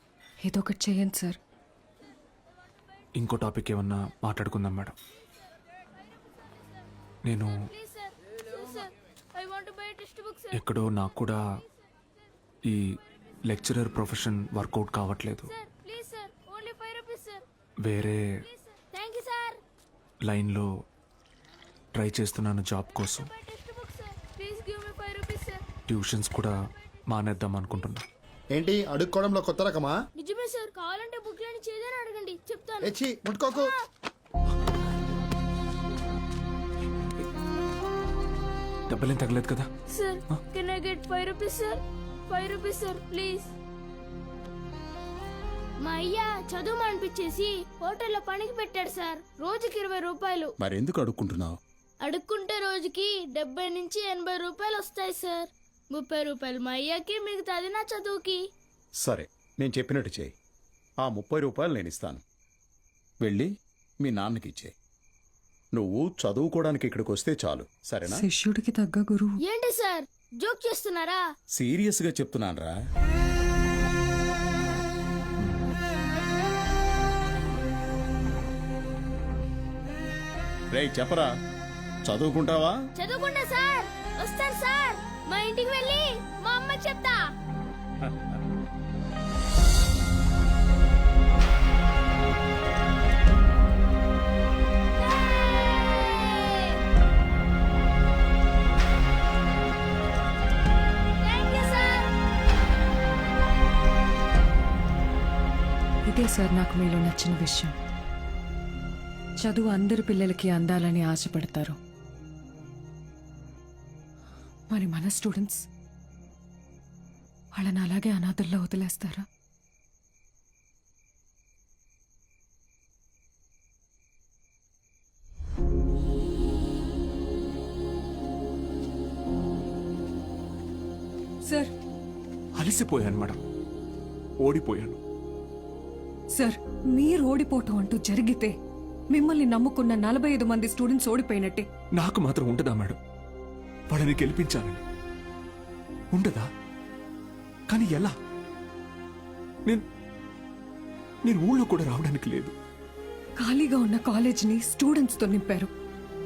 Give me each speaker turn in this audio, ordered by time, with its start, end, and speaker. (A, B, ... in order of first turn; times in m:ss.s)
0:00.4-0:01.4 A
0:03.2-0:05.0 B
0:07.2-0:07.7 B
0:07.5-0:10.6 C
0:10.5-0:11.4 B
0:13.5-0:15.5 B
0:15.5-0:17.4 C
0:17.8-0:18.4 B
0:18.5-0:19.6 C
0:20.2-0:20.7 B
0:21.9-0:23.3 B
0:23.0-0:25.6 C
0:25.9-0:26.5 B
0:27.1-0:28.0 B
0:28.5-0:30.0 D
0:30.2-0:33.8 C
0:32.8-0:33.6 D
0:38.9-0:39.7 B
0:39.9-0:43.5 C
0:45.8-0:50.5 C
0:50.6-0:51.6 E
0:52.0-0:58.4 C
0:59.0-1:00.3 E
1:01.0-1:02.2 E
1:03.2-1:03.5 E
1:04.0-1:04.7 E
1:05.7-1:08.2 E
1:08.0-1:09.4 A
1:09.4-1:11.2 C
1:11.5-1:12.7 E
1:20.7-1:21.3 E
1:22.0-1:22.7 E
1:23.0-1:27.2 C
1:35.0-1:36.8 C
1:41.2-1:42.1 C
1:46.1-1:47.8 A
1:49.4-1:51.8 A
1:54.7-1:55.6 A
1:57.5-1:59.2 A
2:11.4-2:11.7 A
2:12.6-2:13.4 B
2:14.4-2:15.0 B
2:16.3-2:18.5 A
2:19.1-2:21.6 A
2:22.0-2:23.0 B
2:23.9-2:24.8 B
2:26.1-2:26.4 B
2:27.7-2:28.1 B
2:31.2-2:32.5 B
2:33.4-2:35.7 A